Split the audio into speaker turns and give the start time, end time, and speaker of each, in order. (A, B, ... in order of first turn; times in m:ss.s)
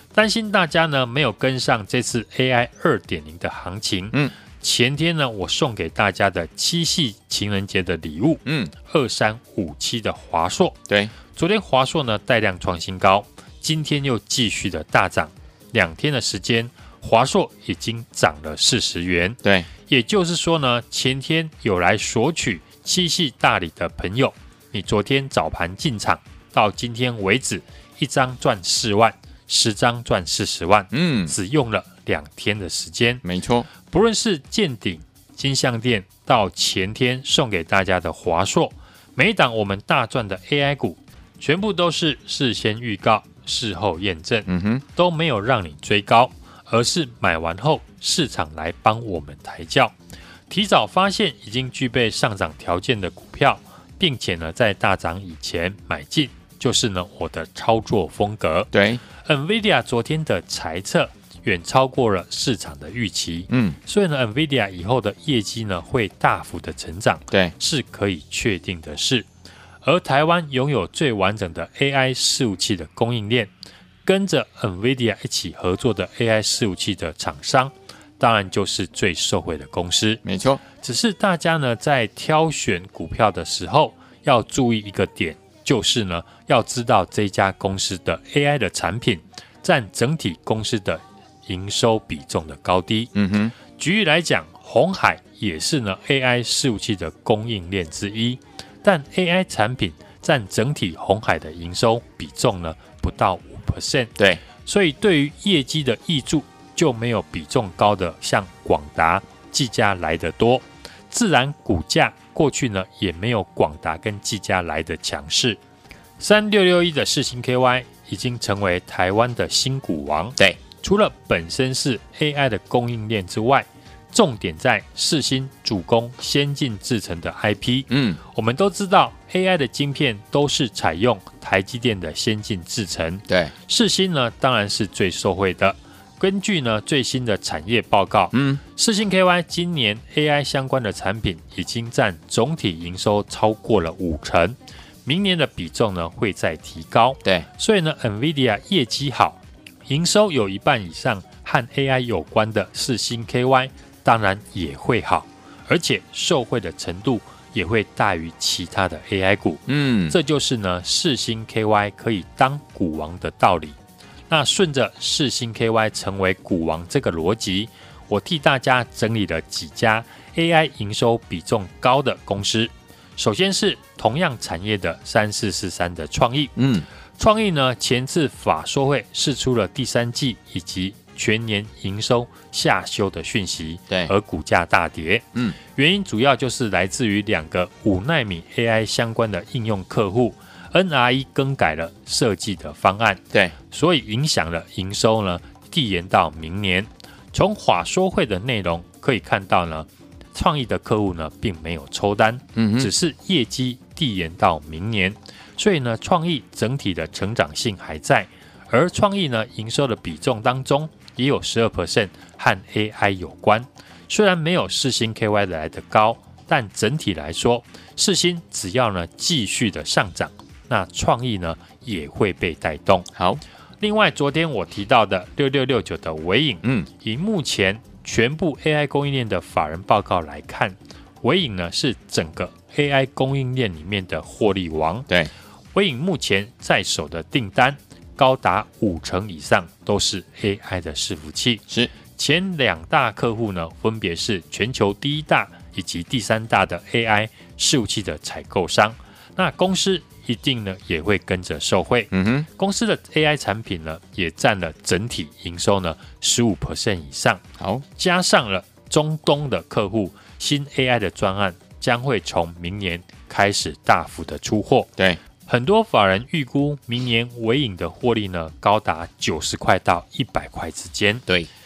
0:00.1-0:10.8 A
0:08.5-0:08.7 B
0:11.3-0:33.2 A
0:19.4-0:19.7 B
0:30.9-0:31.3 B
0:33.2-0:33.7 B
0:33.9-0:49.9 A
0:44.5-0:44.8 B
0:50.5-0:58.7 A
0:58.7-0:59.0 B
0:59.2-1:09.3 A
1:03.5-1:03.8 B
1:09.8-1:13.5 A
1:14.0-1:20.2 A
1:20.2-1:20.6 B
1:20.8-1:33.1 A
1:33.2-1:33.6 B
1:33.7-1:44.1 A
1:44.6-1:55.6 A
1:56.2-2:43.8 A
2:07.9-2:08.2 B
2:13.3-2:13.5 B
2:18.3-2:18.6 B
2:39.7-2:40.2 B
2:44.3-2:56.5 A
2:56.6-2:56.9 B
2:57.2-3:43.1 A
3:22.6-3:22.9 B
3:43.8-3:55.1 A
3:55.7-4:17.4 A
4:12.1-4:12.5 B
4:17.6-4:17.8 B
4:18.0-4:24.9 A
4:25.5-4:31.2 A